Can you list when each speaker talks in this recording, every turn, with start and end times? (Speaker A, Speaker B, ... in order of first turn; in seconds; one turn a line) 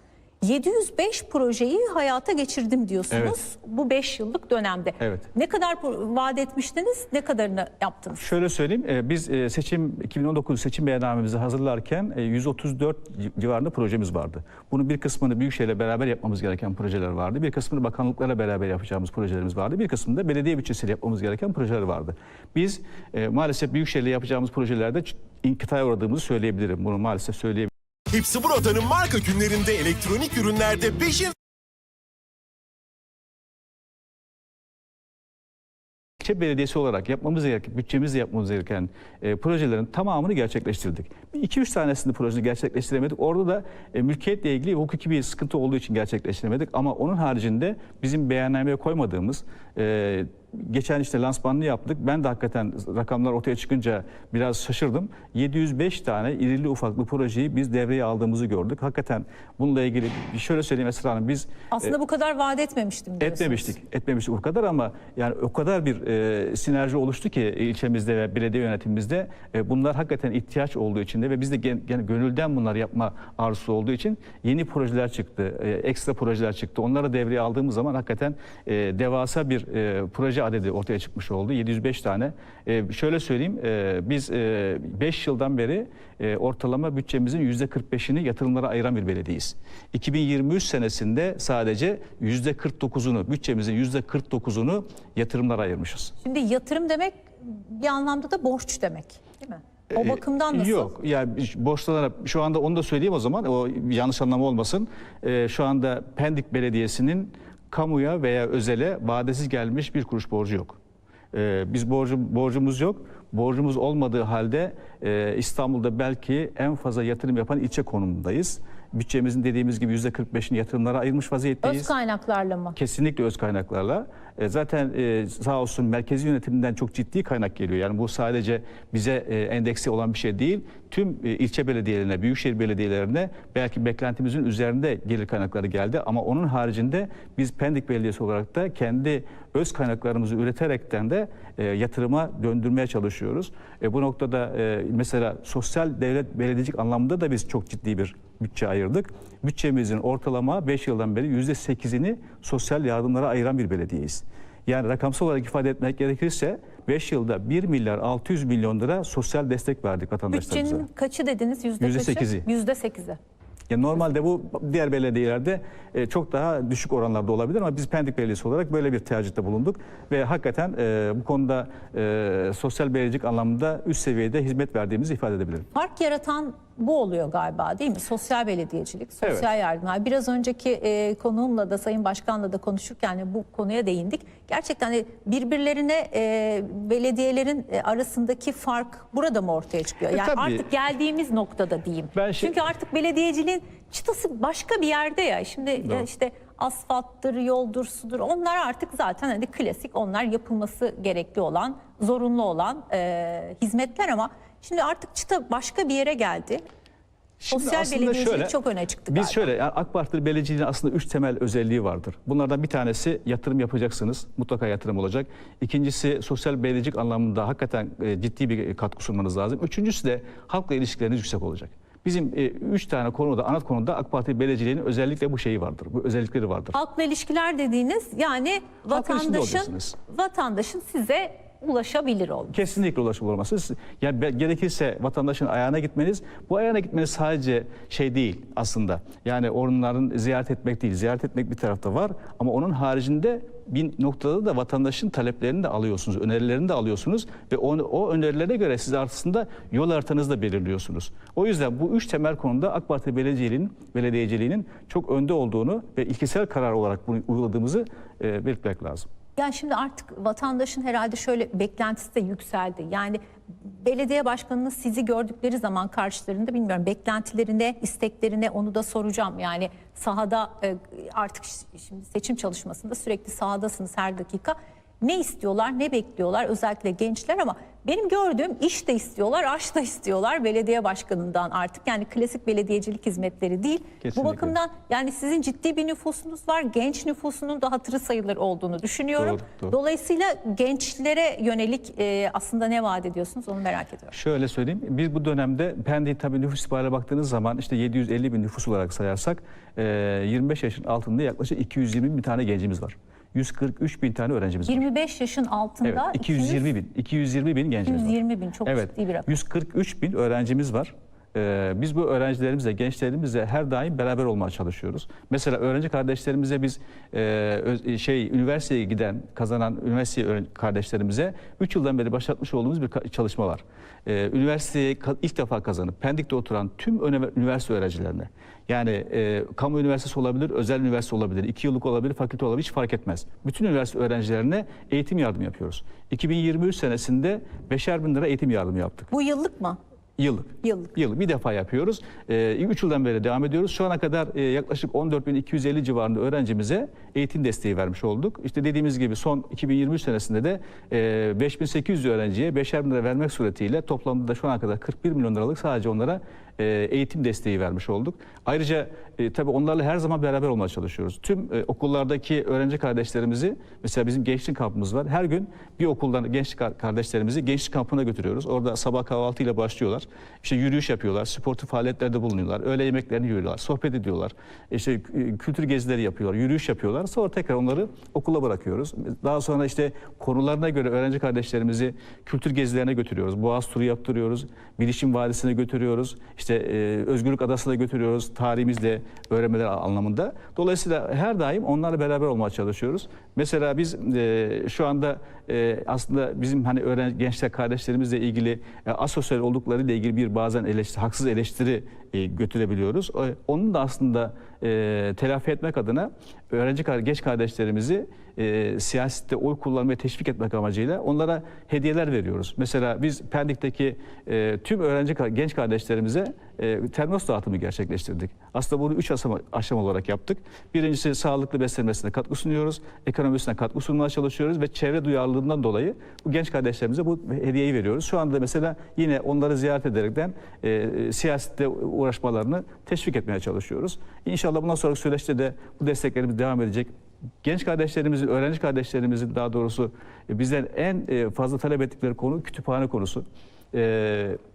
Speaker A: 0.4-8.2
Speaker B: 3.1-3.4
Speaker B: 5.0-5.3
Speaker B: 8.2-27.7
Speaker C: 28.1-31.3
Speaker B: 36.2-62.0
Speaker A: 61.7-63.8
Speaker B: 63.2-96.2
Speaker A: 96.2-100.9
Speaker B: 99.9-110.8
Speaker B: 111.3-121.9
Speaker A: 121.6-122.8
Speaker B: 122.8-160.9
Speaker A: 160.3-163.2
Speaker B: 161.8-162.5
Speaker B: 163.7-175.7
Speaker A: 175.7-206.7
Speaker B: 179.2-179.5
Speaker B: 190.1-190.7
Speaker B: 192.2-192.6
Speaker B: 207.4-208.6
Speaker A: 207.5-209.5
Speaker B: 209.1-226.8
Speaker A: 226.7-232.5
Speaker B: 228.9-230.0
Speaker B: 232.5-259.1
Speaker A: 259.4-294.1
Speaker B: 284.0-284.6
Speaker B: 289.2-289.7
Speaker B: 294.1-304.8
Speaker A: 304.7-306.7
Speaker B: 305.8-339.1
Speaker A: 307.9-309.3
Speaker A: 339.1-339.8
Speaker B: 340.2-436.9
Speaker A: 340.6-340.9
Speaker B: 437.4-444.4